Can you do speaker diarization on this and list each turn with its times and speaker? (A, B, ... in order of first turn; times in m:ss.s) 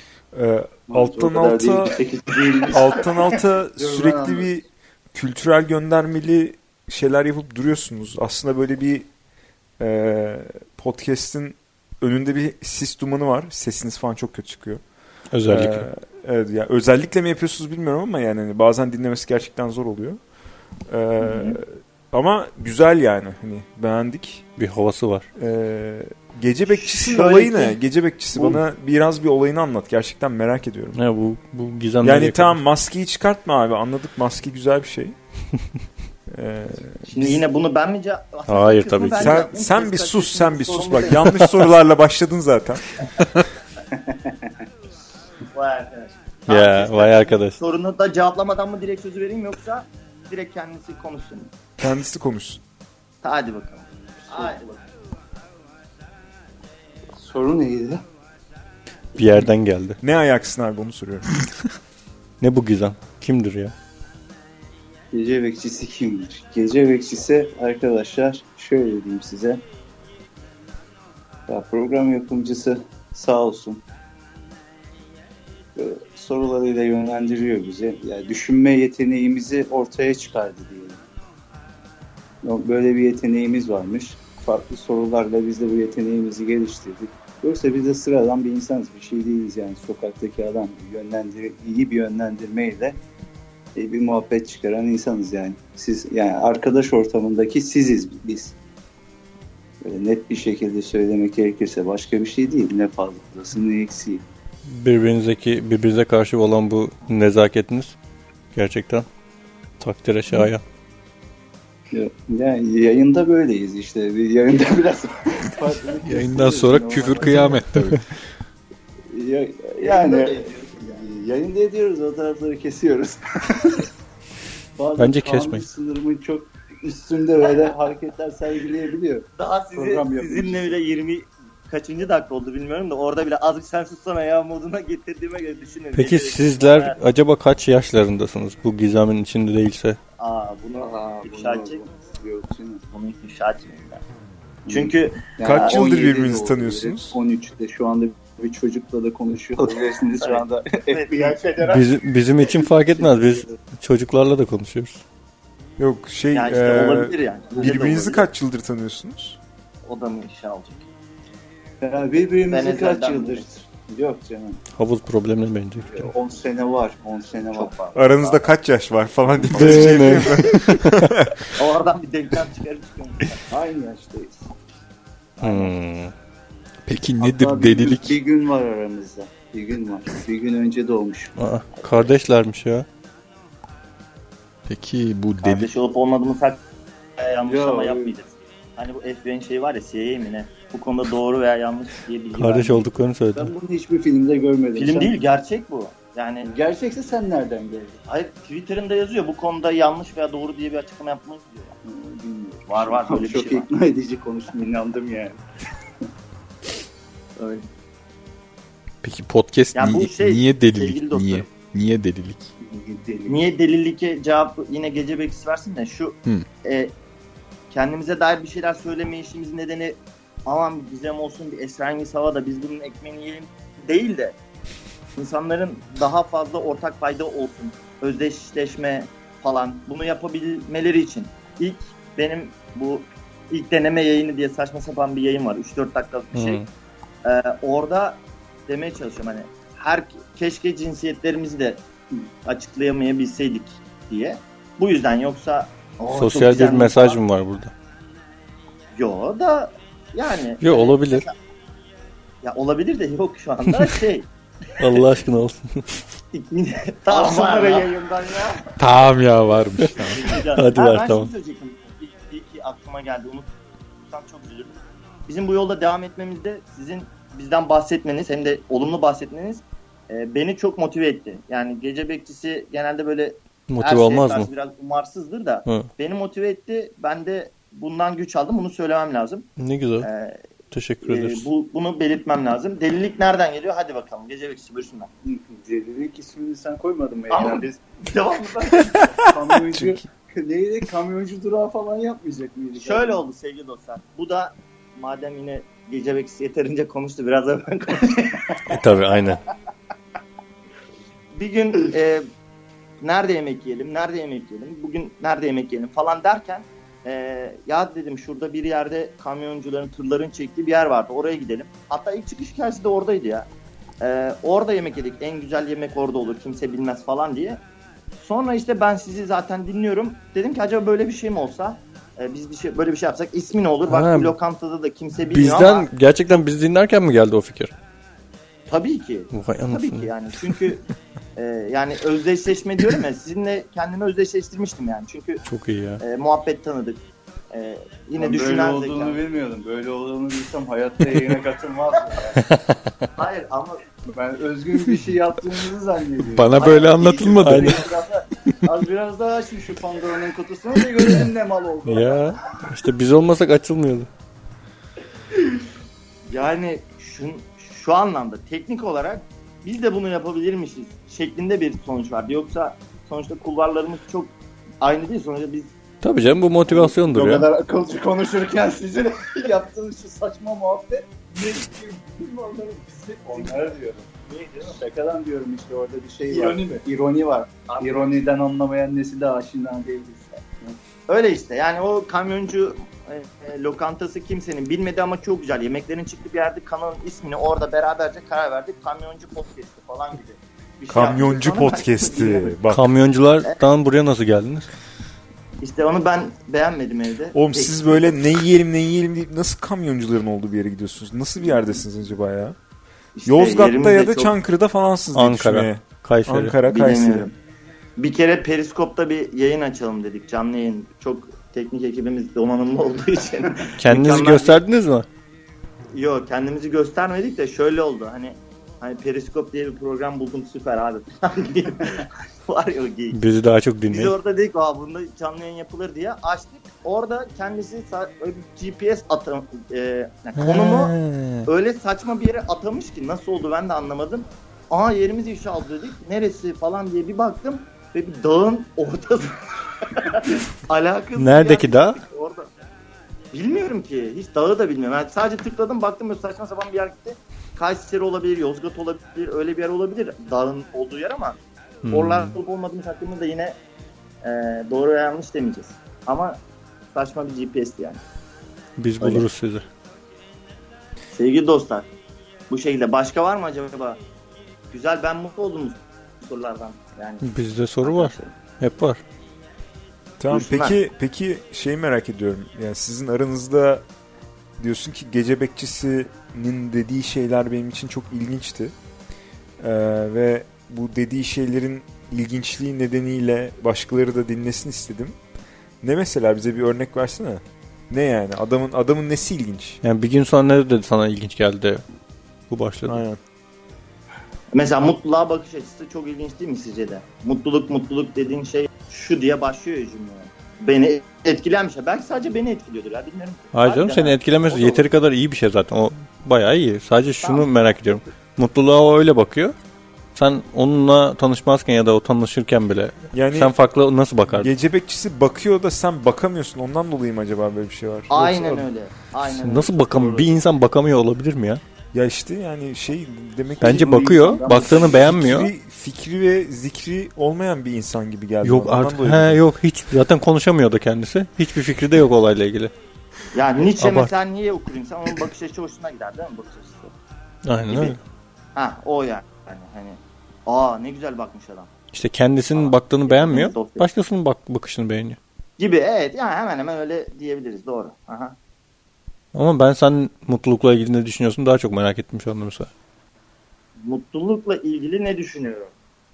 0:00.3-0:02.0 A
0:00.9-0:04.5 B
0:02.7-0:09.1 A
0:09.8-0:14.8 A
0:15.3-0:15.9 C
0:15.4-0:20.2 A
0:20.9-0:24.4 A
0:21.2-0:21.6 D
0:24.6-0:25.3 C
0:25.4-0:31.0 A
0:26.7-0:27.8 D
0:28.4-0:28.6 D
0:31.0-0:32.6 C
0:32.0-0:35.2 A
0:36.3-0:37.4 A
0:37.1-0:41.3 D
0:38.5-0:39.4 C
0:39.2-0:43.5 A
0:43.9-0:44.5 B
0:45.5-0:51.5 D
0:46.5-0:47.6 C
0:51.8-0:52.6 A
0:53.2-0:54.9 D
0:54.3-0:54.6 B
0:57.2-0:58.0 B
0:59.2-1:00.0 C
1:00.0-1:01.3 A
1:02.4-1:03.7 C
1:05.1-1:09.6 B
1:11.5-1:13.8 B
1:15.8-1:21.0 B
1:22.4-1:33.0 B
1:33.8-1:38.6 B
1:39.8-1:44.2 B
1:44.7-1:48.0 C
1:48.5-1:49.1 C
1:49.8-1:50.6 C
1:51.9-1:57.6 B
1:56.0-1:58.0 E
1:59.1-2:03.9 B
1:59.8-2:01.0 D
2:04.8-2:10.8 B
2:05.0-2:05.6 C
2:09.4-2:17.0 D
2:15.9-2:20.0 C
2:20.2-2:21.8 D
2:20.8-2:22.8 B
2:22.9-2:24.0 D
2:24.7-2:31.8 B
2:24.7-2:25.8 D
2:25.4-2:27.2 A
2:30.2-2:31.8 D
2:31.6-2:35.0 C
2:33.0-2:33.5 B
2:35.8-2:39.4 A
2:36.3-2:38.3 D
2:39.9-2:40.8 D
2:41.8-2:44.6 B
2:42.5-2:43.5 D
2:44.8-2:46.1 C
2:45.8-2:48.4 B
2:47.9-2:51.6 A
2:49.4-2:50.4 B
2:49.5-2:51.1 C
2:51.6-2:53.4 D
2:53.5-2:54.5 B
2:55.4-2:55.7 D
2:55.4-2:56.1 C
2:56.9-2:58.2 E
2:57.2-3:01.4 B
3:01.4-3:02.9 C
3:04.7-3:05.7 E
3:05.4-3:06.6 D
3:07.2-3:12.9 D
3:07.5-3:08.1 B
3:12.4-3:13.5 C
3:13.4-3:15.1 B
3:14.8-3:16.5 D
3:16.4-3:18.0 B
3:18.1-3:21.8 D
3:21.8-3:25.4 B
3:22.7-3:23.7 D
3:27.4-3:27.7 D
3:29.0-3:32.5 E
3:29.8-3:31.5 D
3:32.6-3:33.4 B
3:33.3-3:36.9 D
3:37.7-3:44.4 D
3:45.2-3:56.6 D
3:56.3-3:56.7 C
3:57.2-4:01.8 D
4:02.4-4:07.2 D
4:06.1-4:07.7 C
4:09.0-4:11.4 D
4:10.6-4:11.2 C
4:12.4-4:14.3 D
4:14.8-4:16.0 C
4:16.3-4:18.6 D
4:17.1-4:18.5 B
4:18.8-4:20.4 E
4:20.1-4:23.5 D
4:20.5-4:21.3 C
4:24.0-4:24.8 D
4:25.3-4:39.5 D
4:33.7-4:34.5 C
4:39.6-4:40.1 C
4:40.0-4:40.4 D
4:40.7-4:41.5 C
4:41.0-4:45.1 D
4:45.2-4:47.8 B
4:47.3-4:49.2 D
4:49.2-4:53.2 B
4:49.7-4:50.0 A
4:52.8-4:58.6 D
4:58.7-4:59.4 C
5:01.3-5:02.3 D
5:03.0-5:13.5 D
5:14.0-5:17.6 D
5:18.2-5:25.9 D
5:23.9-5:24.4 C
5:25.3-5:27.7 C
5:28.7-5:30.8 D
5:29.3-5:30.1 C
5:31.4-5:35.4 D
5:35.4-5:36.0 C
5:36.0-5:37.0 D
5:37.5-5:39.2 D
5:38.2-5:42.5 B
5:43.2-5:43.8 D
5:44.1-5:52.3 B
5:46.2-5:47.9 E
5:47.4-5:47.9 C
5:51.9-5:54.1 C
5:56.3-6:05.7 D
6:06.0-6:07.5 C
6:06.7-6:20.8 B
6:14.3-6:14.7 D
6:16.3-6:16.6 D
6:17.7-6:18.1 D
6:21.1-6:32.6 D
6:30.9-6:32.8 A
6:32.7-6:34.7 C
6:35.6-6:38.1 D
6:37.3-6:42.6 A
6:43.2-6:44.3 D
6:43.3-6:47.3 A
6:45.1-6:46.6 C
6:46.7-6:47.4 D
6:48.0-6:54.6 D
6:53.8-6:55.1 C
6:55.9-7:03.2 D
7:03.1-7:04.1 C
7:03.9-7:22.5 D
7:10.4-7:11.5 C
7:21.2-7:22.0 C
7:23.3-7:31.4 D
7:31.8-7:32.4 C
7:31.9-7:33.6 D
7:34.2-7:36.4 D
7:36.9-7:38.0 D
7:38.8-7:39.6 C
7:39.0-7:39.3 D
7:41.1-7:41.9 D
7:42.5-7:44.0 D
7:44.7-7:47.3 D
7:47.2-7:49.0 C
7:47.8-7:48.3 D
7:50.2-7:53.8 A
7:50.3-7:50.8 D
7:54.6-7:58.7 A
7:59.6-8:05.2 A
8:05.8-8:09.8 A
8:09.8-8:11.8 C
8:12.5-8:13.0 C
8:12.9-8:13.2 A
8:14.5-8:24.9 D
8:23.5-8:29.5 C
8:30.2-8:34.5 C
8:33.1-8:33.5 A
8:34.3-8:38.6 A
8:38.1-8:40.4 D
8:39.2-8:41.6 C
8:41.9-8:43.9 A
8:43.6-8:45.1 B
8:43.6-8:45.5 C
8:44.8-8:49.4 A
8:48.4-8:52.7 C
8:53.3-8:57.0 D
8:53.8-8:54.1 C
8:57.4-8:58.0 C
8:57.7-8:58.0 D
8:58.6-9:01.7 D
9:01.9-9:05.2 C
9:02.5-9:03.9 D
9:05.6-9:08.4 D
9:09.3-9:12.7 C
9:13.8-9:15.7 D